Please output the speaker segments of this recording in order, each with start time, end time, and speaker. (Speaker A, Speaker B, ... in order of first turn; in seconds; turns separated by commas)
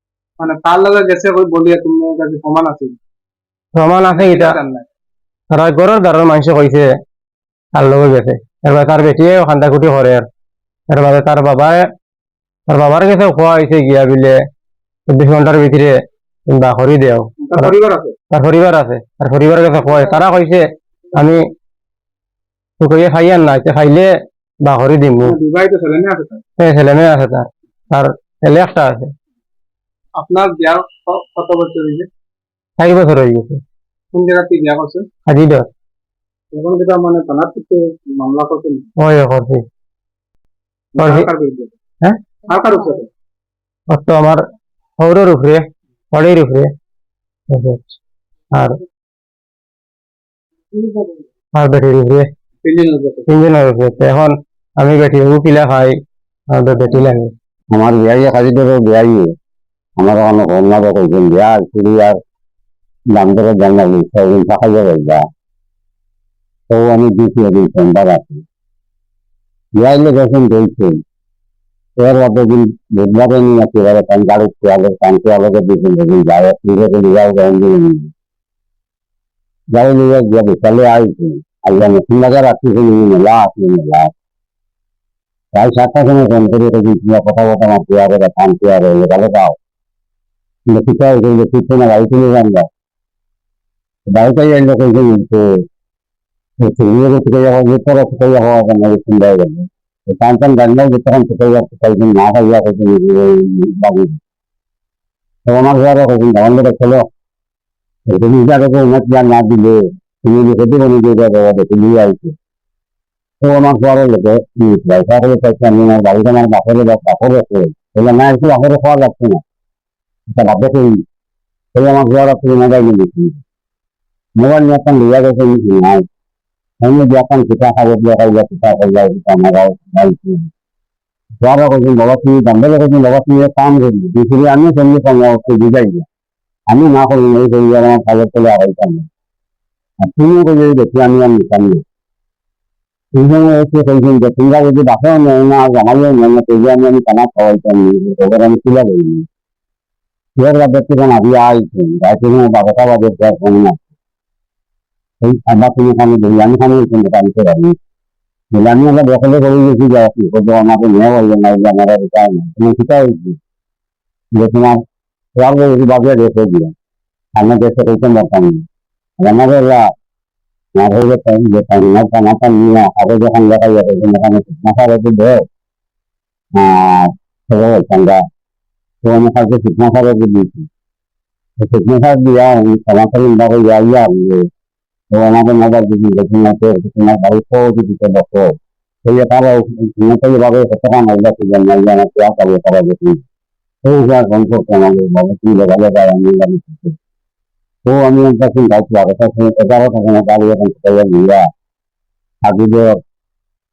Speaker A: 0.4-3.0, Speaker B: 3.7-4.6, Speaker A: 4.1-4.8, Speaker B: 5.5-6.9, Speaker B: 7.7-10.2, Speaker B: 10.9-11.9, Speaker B: 12.7-14.4, Speaker B: 15.1-15.9, Speaker B: 16.5-17.7, Speaker A: 17.4-18.1, Speaker B: 18.3-21.4, Speaker B: 22.8-24.1, Speaker B: 24.6-25.4, Speaker A: 25.2-26.4, Speaker B: 26.6-29.1, Speaker A: 30.2-32.1, Speaker B: 32.8-33.6, Speaker A: 34.1-35.1, Speaker B: 35.3-35.7, Speaker A: 36.5-38.9, Speaker B: 39.0-39.6, Speaker A: 40.9-41.7, Speaker B: 41.0-41.3, Speaker A: 42.5-43.1, Speaker B: 43.9-44.4, Speaker B: 45.0-46.7, Speaker B: 47.5-48.0, Speaker A: 50.7-51.1, Speaker B: 51.5-52.3, Speaker A: 52.6-53.2, Speaker B: 53.3-56.0, Speaker B: 56.5-57.3, Speaker C: 57.7-59.3, Speaker C: 60.0-62.2, Speaker C: 63.1-65.2, Speaker C: 66.7-68.4, Speaker C: 69.8-71.0, Speaker C: 72.0-78.1, Speaker C: 79.7-84.1, Speaker C: 85.5-89.6, Speaker C: 90.7-92.7, Speaker C: 94.1-95.6, Speaker C: 96.6-104.2, Speaker C: 105.4-107.1, Speaker C: 108.0-112.3, Speaker C: 113.4-119.4, Speaker C: 120.3-121.0, Speaker C: 121.7-123.4, Speaker C: 124.4-126.0, Speaker C: 126.8-130.5, Speaker C: 131.4-136.1, Speaker C: 136.7-139.1, Speaker C: 140.0-141.8, Speaker C: 143.1-149.3, Speaker C: 150.3-153.8, Speaker C: 155.2-157.8, Speaker C: 158.5-163.4, Speaker C: 164.3-164.8, Speaker C: 165.3-166.7, Speaker C: 167.3-168.6, Speaker C: 169.2-169.9, Speaker C: 170.8-175.4, Speaker C: 176.5-178.2, Speaker C: 179.0-180.7, Speaker C: 181.6-184.5, Speaker C: 185.1-193.2, Speaker C: 193.8-196.9, Speaker C: 197.8-201.5, Speaker C: 202.4-203.0